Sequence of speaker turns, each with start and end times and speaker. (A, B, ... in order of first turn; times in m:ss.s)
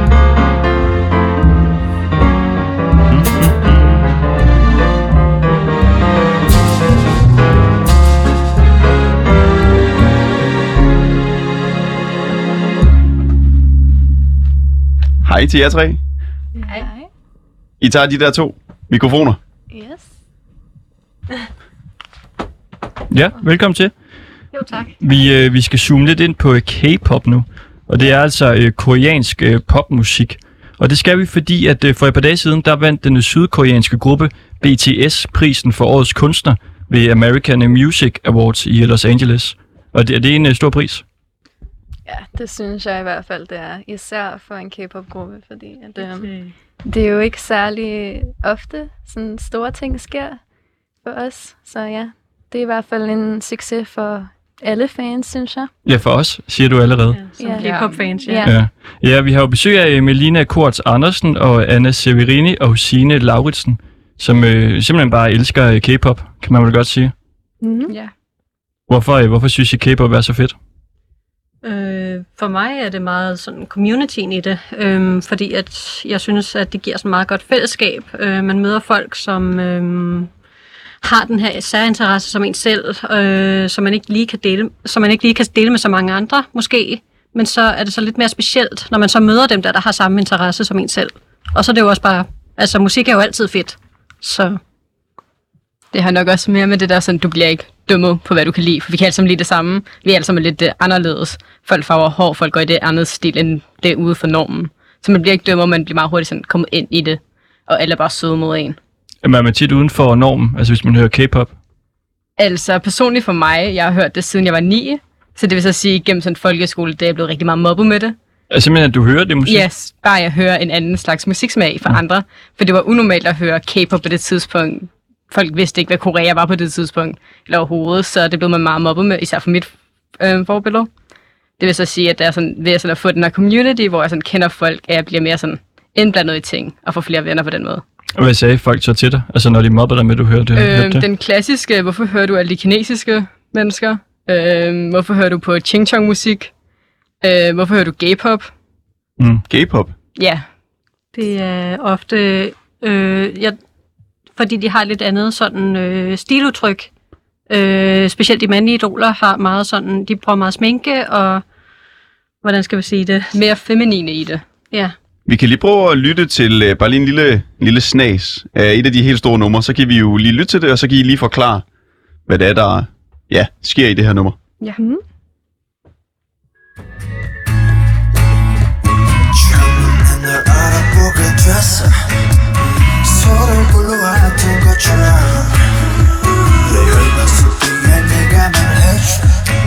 0:03.1-0:03.9 A
0:15.2-0:16.0 B
0:16.6-0:17.1 C
0:17.8-0:19.4 B
0:19.7-0:20.1 C
0:23.1-0:23.9 A
0:24.5-0:24.9 D
0:25.0-0:41.0 A
0:42.1-0:46.3 C
0:46.0-0:46.5 D
0:46.8-0:50.4 C
0:51.0-0:55.7 C
0:55.8-0:57.2 A
0:57.1-0:58.5 D
0:57.4-0:58.6 C
0:57.6-0:58.1 E
0:58.4-1:07.1 A
1:07.6-1:07.9 C
1:08.9-1:10.6 A
1:11.6-1:20.3 D
1:21.0-1:34.6 D
1:35.9-1:48.8 E
1:49.2-1:51.5 A
1:52.4-1:58.2 E
1:58.5-1:59.7 A
1:59.4-2:10.9 E
2:11.6-2:17.8 E
2:18.2-2:21.1 A
2:20.5-2:26.5 E
2:27.2-2:28.5 E
2:29.2-2:29.4 A
2:29.5-2:29.9 B
2:30.2-2:30.4 E
2:31.1-2:33.6 D
2:34.4-2:36.9 D
2:37.5-2:41.4 D
2:42.4-2:43.4 D
2:43.3-2:44.4 E
2:45.3-2:51.6 B
2:52.3-2:54.4 B
2:59.5-3:01.9 F
3:03.1-3:05.3 F
3:06.7-3:09.0 F